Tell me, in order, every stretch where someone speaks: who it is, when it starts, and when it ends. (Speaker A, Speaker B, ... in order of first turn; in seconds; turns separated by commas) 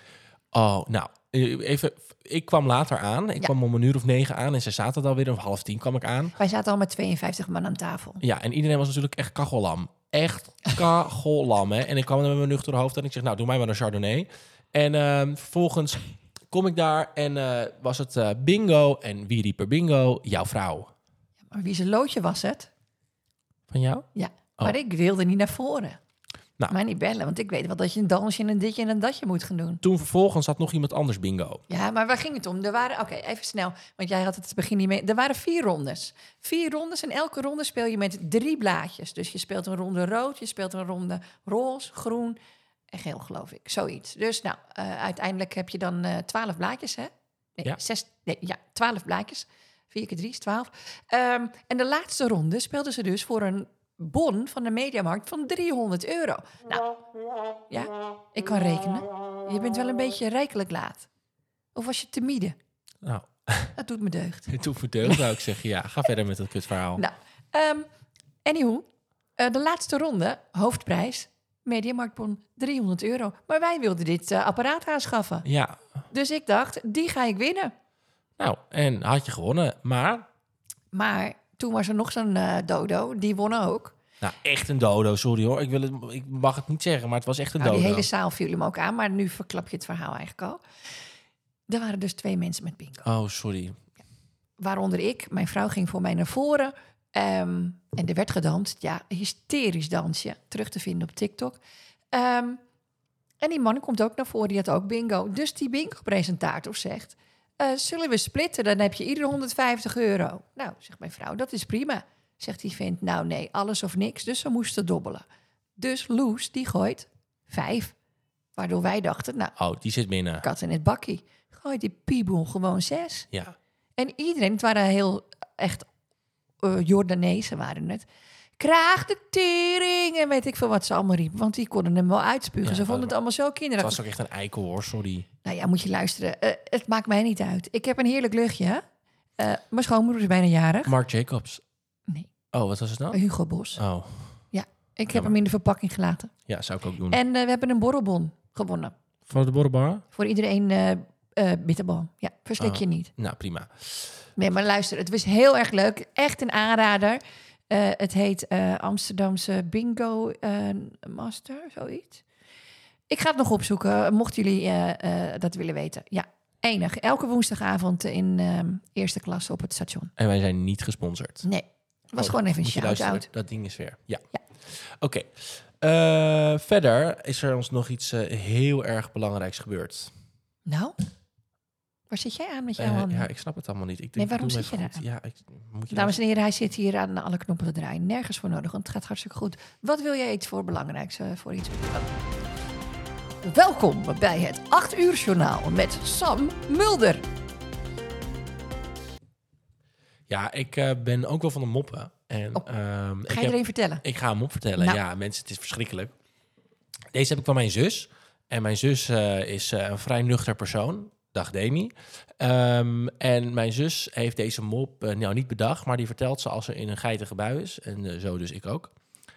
Speaker A: 0.5-6.4, Speaker B: 6.4-8.2, Speaker A: 8.2-20.9, Speaker B: 21.5-22.7, Speaker A: 23.7-24.1, Speaker B: 24.1-26.0, Speaker B: 26.7-29.8, Speaker A: 29.8-31.6, Speaker B: 31.7-42.4, Speaker B: 42.9-56.9, Speaker B: 57.7-61.1, Speaker B: 61.8-62.5, Speaker A: 63.0-63.8, Speaker B: 63.8-64.5, Speaker A: 64.5-67.0, Speaker B: 67.0-67.9, Speaker B: 68.5-68.8, Speaker B: 69.4-75.4, Speaker A: 75.4-75.8, Speaker B: 76.1-77.7, Speaker A: 78.4-80.2, Speaker B: 80.9-84.0, Speaker A: 84.2-88.1, Speaker B: 87.6-90.6, Speaker B: 91.7-93.0, Speaker A: 93.0-93.8, Speaker B: 94.6-101.6, Speaker B: 102.1-102.6, Speaker B: 103.4-115.2, Speaker B: 115.8-117.9, Speaker B: 118.6-119.6, Speaker A: 119.6-120.4, Speaker B: 120.4-123.3, Speaker B: 124.0-125.9, Speaker B: 126.6-128.1, Speaker B: 128.6-134.0, Speaker A: 132.6-133.1, Speaker A: 133.8-135.2, Speaker B: 135.4-138.8, Speaker B: 139.4-140.9, Speaker A: 140.8-141.6, Speaker A: 142.5-143.2, Speaker B: 143.1-143.8, Speaker A: 143.8-144.4, Speaker B: 144.5-146.3, Speaker A: 146.5-147.2, Speaker B: 147.1-148.9, Speaker A: 149.3-150.0, Speaker B: 150.1-153.1, Speaker A: 152.6-154.1, Speaker B: 154.4-162.2, Speaker B: 163.1-170.1, Speaker A: 170.2-171.4, Speaker B: 171.4-173.2, Speaker A: 172.2-180.1, Speaker B: 180.7-180.9, Speaker B: 182.1-183.3, Speaker A: 182.8-186.1, Speaker B: 184.2-185.0, Speaker B: 185.9-192.0, Speaker B: 193.4-197.2, Speaker A: 200.3-206.1, Speaker B: 203.3-204.0, Speaker A: 207.1-218.9